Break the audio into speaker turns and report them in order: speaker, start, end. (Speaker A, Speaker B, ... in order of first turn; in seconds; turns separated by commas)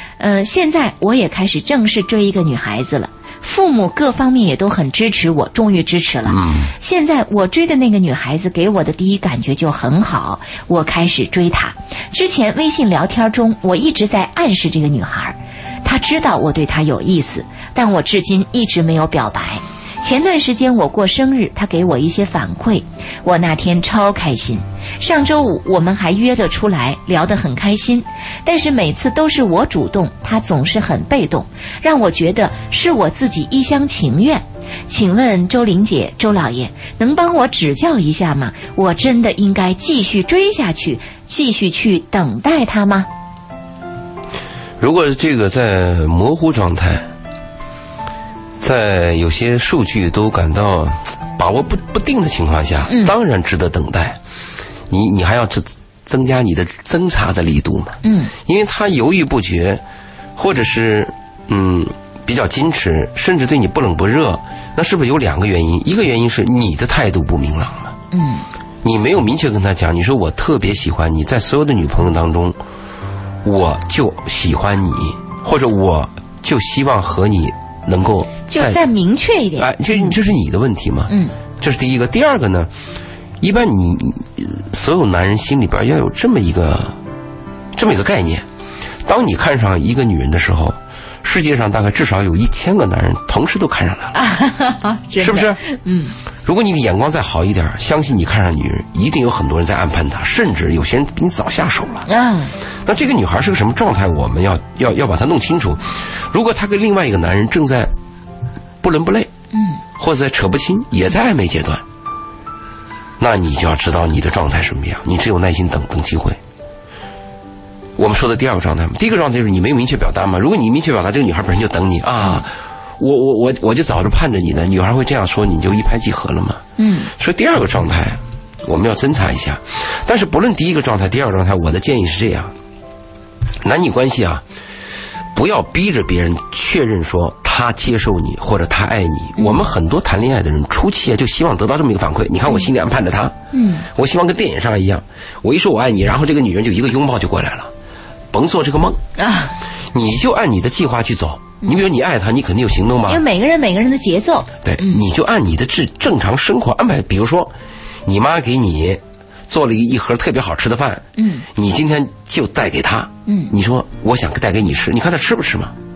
Speaker A: 0.2-43.1, Speaker B: 6.3-6.7, Speaker B: 44.8-47.1, Speaker B: 48.6-54.2, Speaker A: 52.9-53.1, Speaker B: 54.9-59.8, Speaker A: 58.0-58.3, Speaker B: 60.4-68.0, Speaker A: 68.1-68.5, Speaker B: 68.8-72.6, Speaker B: 73.4-78.8, Speaker A: 78.5-80.2, Speaker B: 79.6-82.7, Speaker A: 81.1-81.3, Speaker B: 83.4-87.0, Speaker B: 87.8-88.5, Speaker B: 89.0-94.2, Speaker A: 94.1-96.2, Speaker B: 95.2-95.6, Speaker B: 96.5-102.1, Speaker A: 102.1-102.5, Speaker B: 102.8-107.9, Speaker B: 108.8-109.3, Speaker A: 109.5-109.8, Speaker B: 110.0-111.8, Speaker B: 113.2-116.4, Speaker B: 118.0-126.6, Speaker A: 126.8-127.1, Speaker B: 127.2-132.5, Speaker B: 133.6-134.4, Speaker B: 135.3-143.4, Speaker A: 139.4-139.6, Speaker A: 143.5-143.9, Speaker B: 143.9-147.7, Speaker B: 148.3-149.0, Speaker A: 149.2-149.6, Speaker B: 149.9-153.2, Speaker A: 153.1-155.0, Speaker B: 154.7-157.5, Speaker B: 158.1-165.8, Speaker A: 161.2-161.5, Speaker A: 163.3-163.5